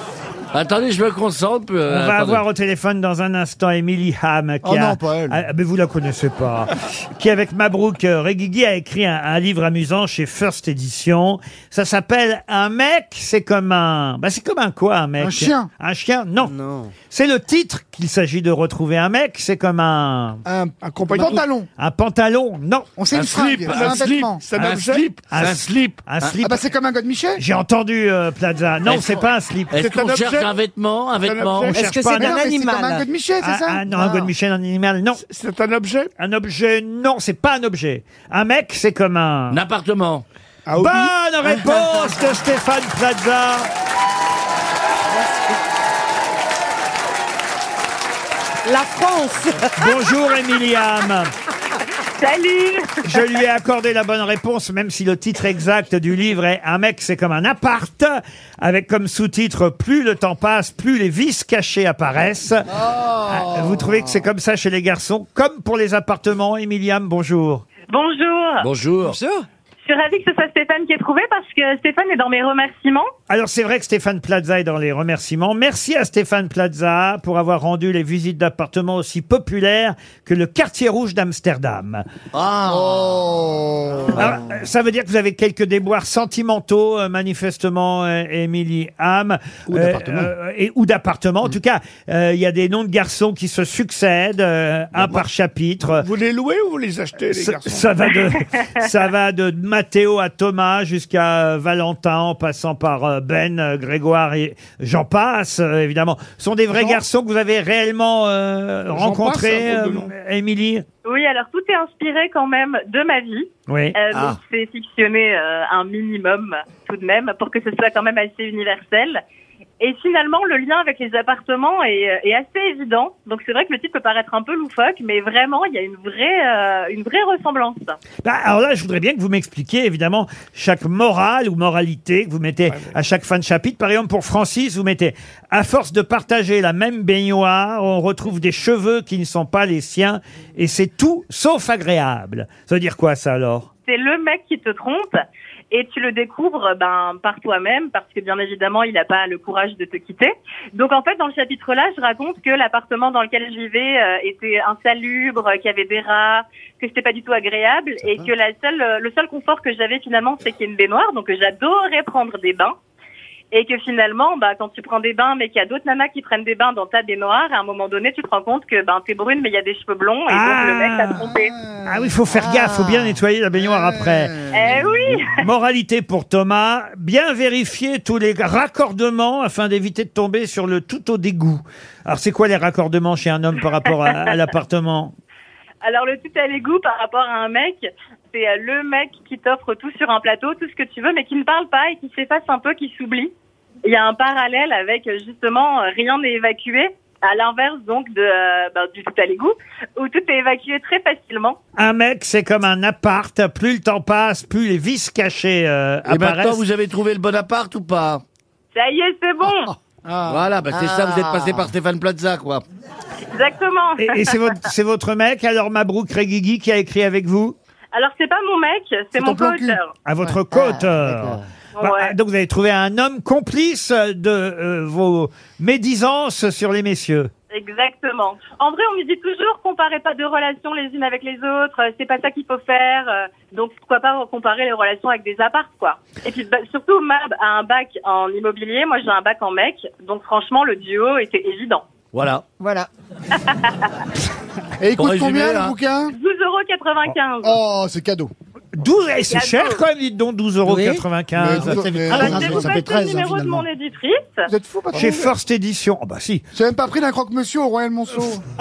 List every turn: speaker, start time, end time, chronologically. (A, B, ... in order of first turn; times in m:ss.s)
0:00.5-0:02.4 A
0:01.8-0:16.5 B
0:04.6-0:05.4 C
0:15.2-0:15.7 C
0:16.4-0:16.9 A
0:17.1-0:20.4 B
0:20.4-0:21.7 C
0:20.8-0:21.4 D
0:21.2-0:23.0 B
0:23.0-0:24.4 C
0:23.1-0:26.4 A
0:23.6-0:25.3 D
0:25.3-0:26.6 B
0:26.4-0:27.4 C
0:27.4-0:29.8 B
0:28.8-0:31.8 A
0:29.8-0:30.6 D
0:31.2-0:32.0 D
0:31.7-0:33.1 E
0:31.7-0:32.4 B
0:32.1-0:34.3 C
0:33.4-0:35.2 B
0:35.2-0:36.1 D
0:36.2-0:39.6 B
0:39.5-0:40.2 A
0:40.7-0:41.1 D
0:40.8-0:43.7 B
0:45.1-0:45.5 E
0:48.6-0:49.7 E
0:49.8-0:51.3 B
0:52.0-0:53.1 F
0:53.0-1:07.6 B
1:07.9-1:08.7 F
1:08.6-1:09.2 A
1:09.0-1:09.4 E
1:09.8-1:13.1 F
1:13.3-1:22.0 B
1:22.3-1:23.3 A
1:22.6-1:24.1 C
1:24.1-1:36.0 B
1:29.7-1:30.2 C
1:36.0-1:37.9 D
1:37.3-1:50.8 B
1:48.9-1:50.1 D
1:51.0-1:59.2 F
1:53.7-1:54.0 B
1:59.8-2:08.0 F
2:08.2-2:23.7 B
2:23.8-2:25.1 F
2:25.7-2:42.7 F
2:43.5-2:51.5 F
2:50.3-2:51.3 B
2:51.8-2:54.4 B
2:52.3-2:53.2 E
2:53.6-2:54.5 C
2:54.5-2:55.4 F
2:55.3-3:05.1 B
3:05.8-3:13.3 F
3:13.8-3:21.6 F
3:21.8-3:26.6 B
3:26.0-3:28.2 A
3:28.7-3:29.7 F
3:30.0-3:30.4 C
3:30.2-3:32.6 A
3:30.7-3:31.7 E
3:33.3-3:34.4 F
3:34.0-3:37.5 B
3:37.9-3:39.9 F
3:39.2-3:39.8 C
3:40.0-3:47.3 B
3:40.3-3:41.4 E
3:41.8-3:42.1 F
3:47.5-4:01.8 F
4:02.1-4:02.4 A
4:02.6-4:02.9 E
4:03.4-4:03.9 F
4:04.8-4:06.1 C
4:05.0-4:05.8 A
4:06.1-4:07.6 F
4:07.4-4:08.3 C
4:08.8-4:12.7 B
4:09.3-4:09.8 F
4:10.6-4:11.0 E
4:11.3-4:13.6 C
4:12.1-4:14.5 F
4:14.5-4:15.3 C
4:14.9-4:16.4 B
4:16.5-4:18.4 C